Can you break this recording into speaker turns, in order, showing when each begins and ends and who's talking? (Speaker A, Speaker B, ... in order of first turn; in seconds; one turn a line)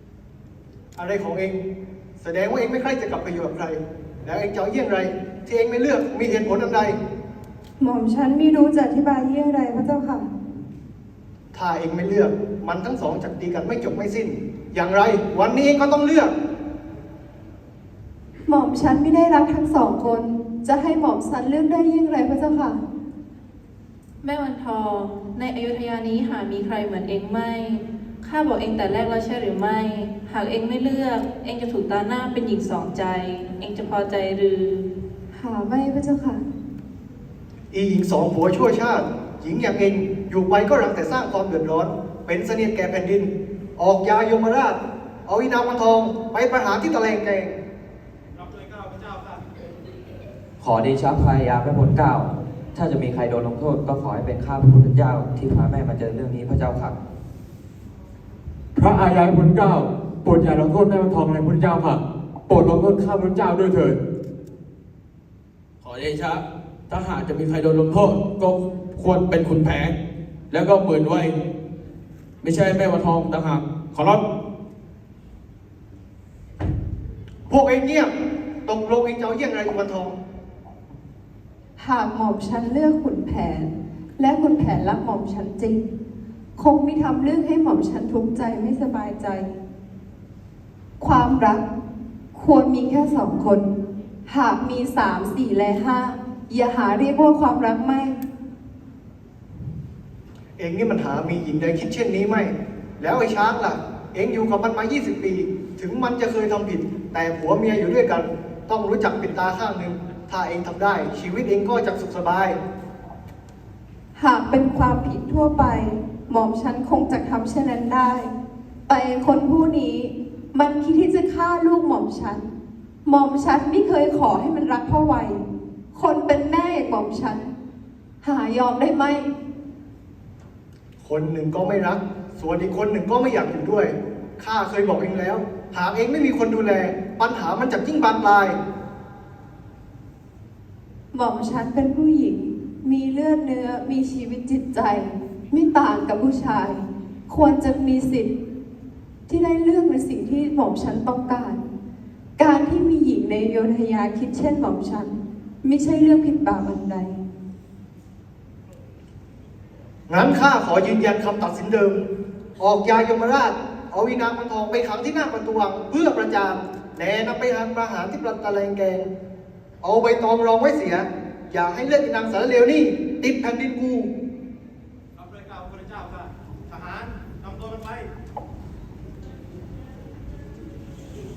Speaker A: 0.9-1.6
Speaker A: 2.2-7.0
Speaker B: 7.8-10.3
Speaker A: 11.5-16.3
Speaker B: 18.5-22.8
Speaker C: 24.2-34.9
Speaker B: 35.3-36.4
Speaker A: 37.7-47.5
Speaker D: 50.6-56.9
Speaker E: 58.7-64.0
Speaker F: 65.8-69.9
Speaker F: 70.5-71.3
Speaker F: 72.4-74.2
Speaker A: 77.5-78.1
Speaker A: 78.6-80.2
Speaker B: 81.8-85.9
Speaker B: 86.6-89.5
Speaker B: 91.0-91.6
Speaker B: 92.3-93.7
Speaker B: 94.3-98.2
Speaker A: 100.6-112.6
Speaker B: 114.2-118.3
Speaker B: 118.9-122.5
Speaker B: 123.0-127.5
Speaker B: 128.2-129.3
Speaker A: 131.0-138.6
Speaker B: 141.1-148.3
Speaker B: 149.3-151.7
Speaker B: 152.4-157.2
Speaker A: 160.1-162.0
Speaker A: 162.6-169.1
Speaker A: 169.8-174.1